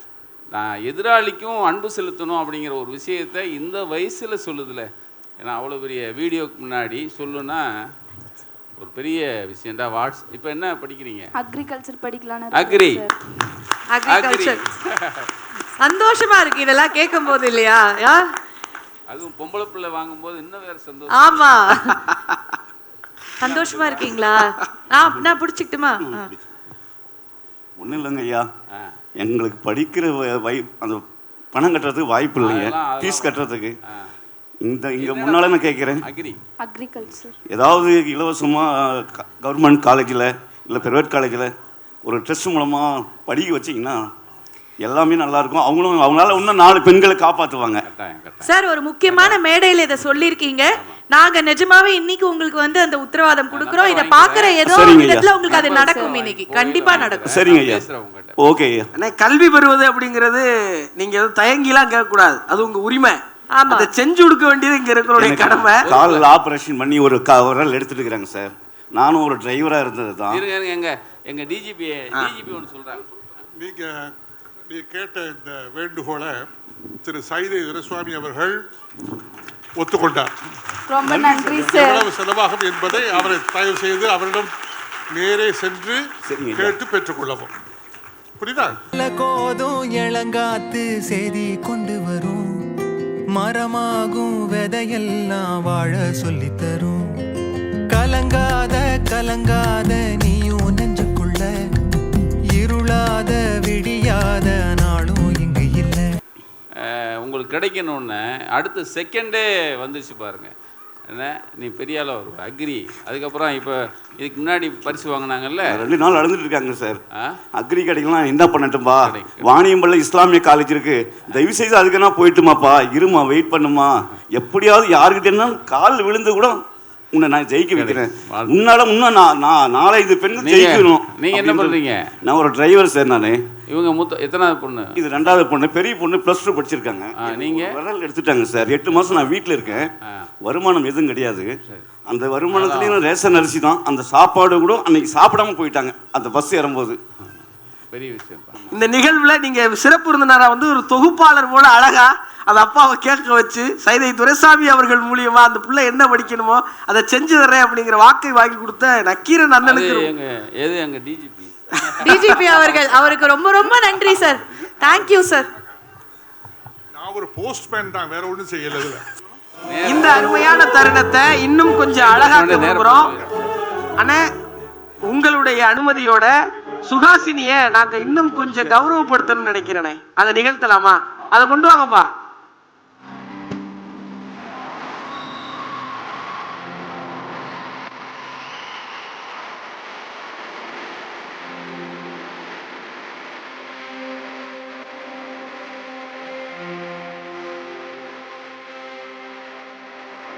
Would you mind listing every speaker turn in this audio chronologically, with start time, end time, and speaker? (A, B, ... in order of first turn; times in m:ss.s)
0:00.6-0:04.9 A
0:05.4-0:07.6 A
0:08.8-0:11.3 A
0:11.4-0:13.1 B
0:12.6-0:13.0 A
0:13.9-0:14.6 C
0:14.1-0:15.3 A
0:15.8-0:18.2 C
0:19.1-0:22.0 A
0:21.1-0:21.9 C
0:23.4-0:26.3 C
0:23.4-0:24.2 A
0:27.8-0:28.5 D
0:29.2-0:31.0 D
0:31.5-0:33.8 D
0:32.4-0:34.1 A
0:34.6-0:36.1 D
0:35.0-0:36.4 A
0:36.6-0:37.4 B
0:37.5-0:41.5 D
0:42.0-0:44.0 D
0:44.8-0:47.8 D
0:47.8-0:48.5 A
0:48.4-0:57.3 C
0:49.1-0:49.4 A
0:53.5-0:54.6 A
0:54.6-0:55.3 D
0:55.4-0:58.4 A
0:55.5-0:56.2 B
0:57.2-0:57.8 D
0:58.4-0:58.9 D
0:59.0-1:05.9 E
1:03.5-1:03.9 C
1:05.2-1:10.4 D
1:05.5-1:06.3 A
1:10.3-1:13.0 A
1:13.6-1:14.1 F
1:14.7-1:16.5 F
1:17.0-1:18.6 F
1:19.8-1:20.3 F
1:20.9-1:22.1 B
1:21.0-1:21.8 D
1:21.7-1:24.5 F
1:22.9-1:23.2 D
1:25.1-1:26.0 F
1:26.2-1:26.8 D
1:26.6-1:27.5 F
1:28.4-1:28.8 F
1:29.0-1:32.4 G
1:33.4-1:37.0 G
1:38.0-1:41.5 G
1:42.6-1:46.1 G
1:46.8-1:50.5 A
1:51.1-1:55.7 A
1:55.7-1:57.0 D
1:57.6-2:06.6 D
1:59.0-1:59.6 A
2:07.1-2:13.4 D
2:07.8-2:08.5 A
2:10.4-2:12.0 A
2:13.7-2:14.9 A
2:15.0-2:19.9 D
2:17.2-2:17.7 A
2:19.0-2:20.3 A
2:20.4-2:21.5 D
2:22.1-2:27.0 D
2:22.5-2:23.0 A
2:27.9-2:28.9 A
2:28.7-2:40.1 E
2:39.6-2:42.9 A
2:42.0-2:45.5 C
2:47.0-2:49.0 F
2:49.7-2:50.2 A
2:49.8-2:53.1 E
2:51.9-2:53.3 A
2:54.0-2:54.2 E
2:55.1-2:56.3 E
2:56.9-3:02.1 E